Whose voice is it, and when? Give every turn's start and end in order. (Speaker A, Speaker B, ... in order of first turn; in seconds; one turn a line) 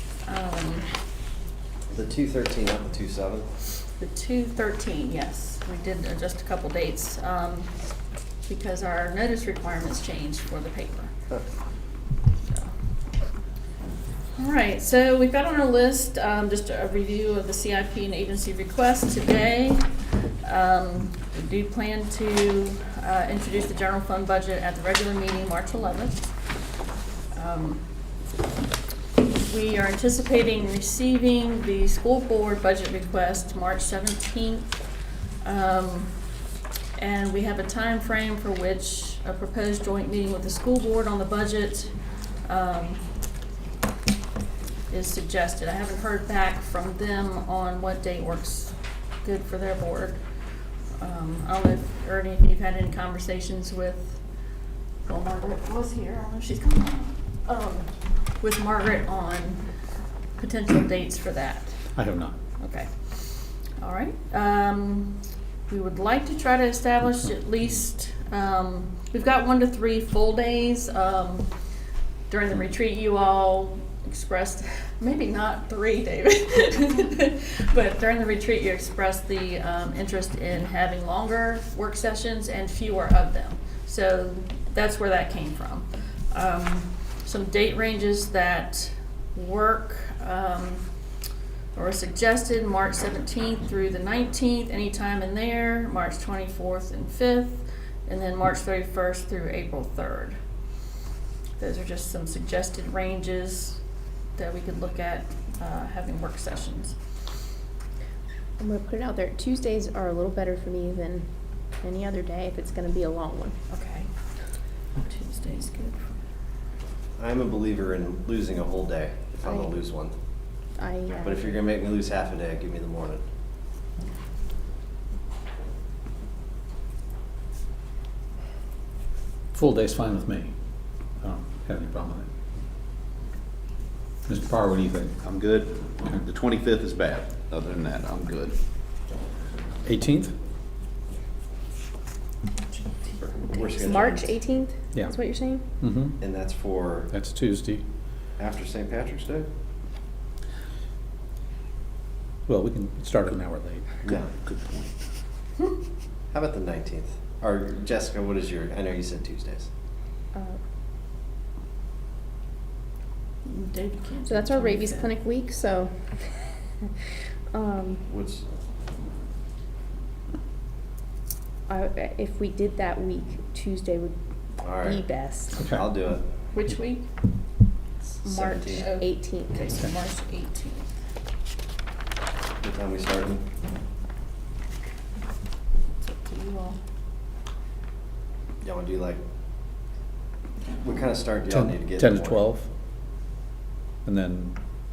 Speaker A: 0.2-0.8
Speaker B: 1.9-3.5
Speaker A: 4.0-7.7
Speaker A: 8.4-11.1
Speaker A: 12.4-12.7
Speaker A: 14.3-26.3
Speaker A: 27.3-27.8
Speaker A: 29.3-34.8
Speaker A: 35.4-36.1
Speaker A: 37.0-43.0
Speaker A: 44.9-50.2
Speaker A: 50.9-54.2
Speaker A: 55.0-59.6
Speaker A: 60.4-61.8
Speaker C: 61.9-62.4
Speaker A: 62.6-71.5
Speaker A: 72.3-90.8
Speaker A: 91.7-100.4
Speaker A: 101.6-103.8
Speaker A: 104.3-107.0
Speaker D: 108.6-113.5
Speaker A: 113.7-114.1
Speaker A: 115.0-116.1
Speaker B: 117.2-120.1
Speaker D: 119.4-119.7
Speaker D: 120.8-121.5
Speaker B: 121.2-123.2
Speaker C: 129.5-130.5
Speaker C: 131.2-132.3
Speaker C: 134.2-135.1
Speaker E: 135.2-138.6
Speaker C: 139.8-140.3
Speaker A: 142.6-144.2
Speaker B: 143.5-144.3
Speaker D: 143.8-145.6
Speaker C: 145.8-146.2
Speaker B: 146.2-147.1
Speaker C: 147.1-147.8
Speaker B: 148.4-149.5
Speaker C: 152.5-153.9
Speaker E: 154.0-154.9
Speaker B: 156.3-159.7
Speaker D: 160.3-160.6
Speaker A: 163.4-165.1
Speaker D: 164.2-168.0
Speaker B: 168.1-168.4
Speaker D: 171.7-175.6
Speaker B: 174.6-175.0
Speaker B: 175.6-176.2
Speaker A: 176.5-177.1
Speaker B: 178.2-178.9
Speaker A: 178.2-180.9
Speaker D: 178.6-179.6
Speaker B: 182.6-183.4
Speaker A: 186.0-186.8
Speaker B: 188.6-189.2
Speaker B: 190.8-192.5
Speaker C: 191.5-192.7
Speaker C: 194.0-194.6